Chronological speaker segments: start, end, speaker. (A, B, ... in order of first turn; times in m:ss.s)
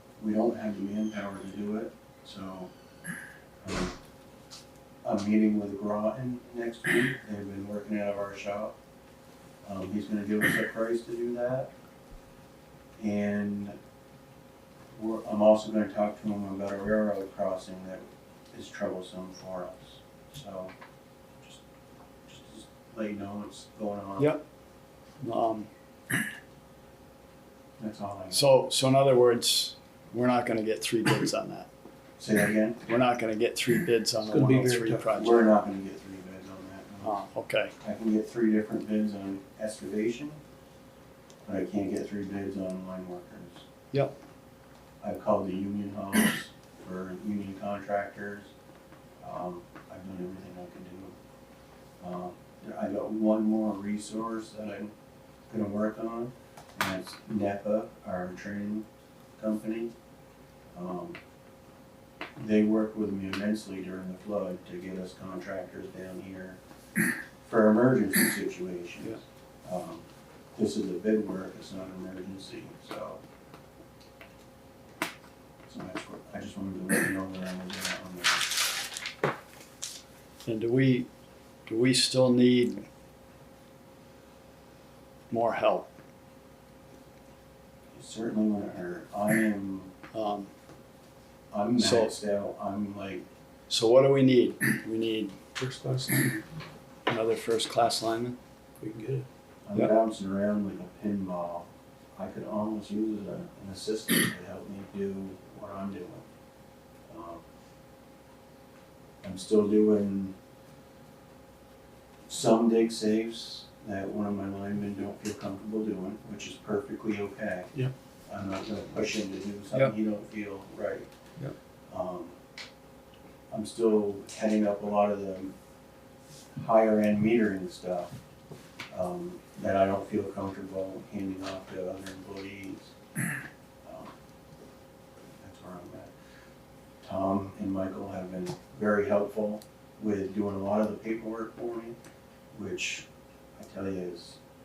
0:00.2-0:02.7 A
0:03.6-0:04.0 A
0:05.0-0:08.8 A
0:09.6-0:11.7 A
0:13.0-0:13.8 A
0:15.0-0:20.7 A
0:22.3-0:24.4 A
0:24.2-0:24.4 B
0:25.2-0:25.7 B
0:27.8-0:28.5 A
0:28.3-0:31.7 B
0:32.2-0:32.9 A
0:32.8-0:35.5 B
0:34.2-0:35.1 C
0:35.2-0:37.2 A
0:37.0-0:37.7 B
0:37.8-0:40.4 A
0:41.4-0:43.7 A
0:45.0-0:48.5 A
0:49.2-0:51.2 A
0:52.0-0:54.9 A
0:55.5-0:59.9 A
1:00.7-1:01.2 A
1:02.4-1:06.6 A
1:07.4-1:13.2 A
1:15.7-1:18.5 A
1:20.5-1:21.1 B
1:21.7-1:22.8 B
1:25.3-1:25.9 B
1:27.9-1:29.9 A
1:30.1-1:30.5 B
1:31.5-1:33.2 A
1:31.8-1:32.1 B
1:33.7-1:35.4 B
1:35.6-1:36.4 C
1:37.1-1:38.4 B
1:38.8-1:39.3 C
1:39.6-1:46.2 A
1:47.1-1:47.4 A
1:49.2-1:50.4 A
1:52.3-1:57.7 A
1:58.3-2:01.1 A
2:01.9-2:02.4 A
2:03.5-2:05.5 A
2:06.6-2:08.1 A
2:08.9-2:12.9 A
2:13.8-2:14.1 A
2:15.4-2:16.1 A
2:17.0-2:22.0 A
2:22.5-2:24.4 A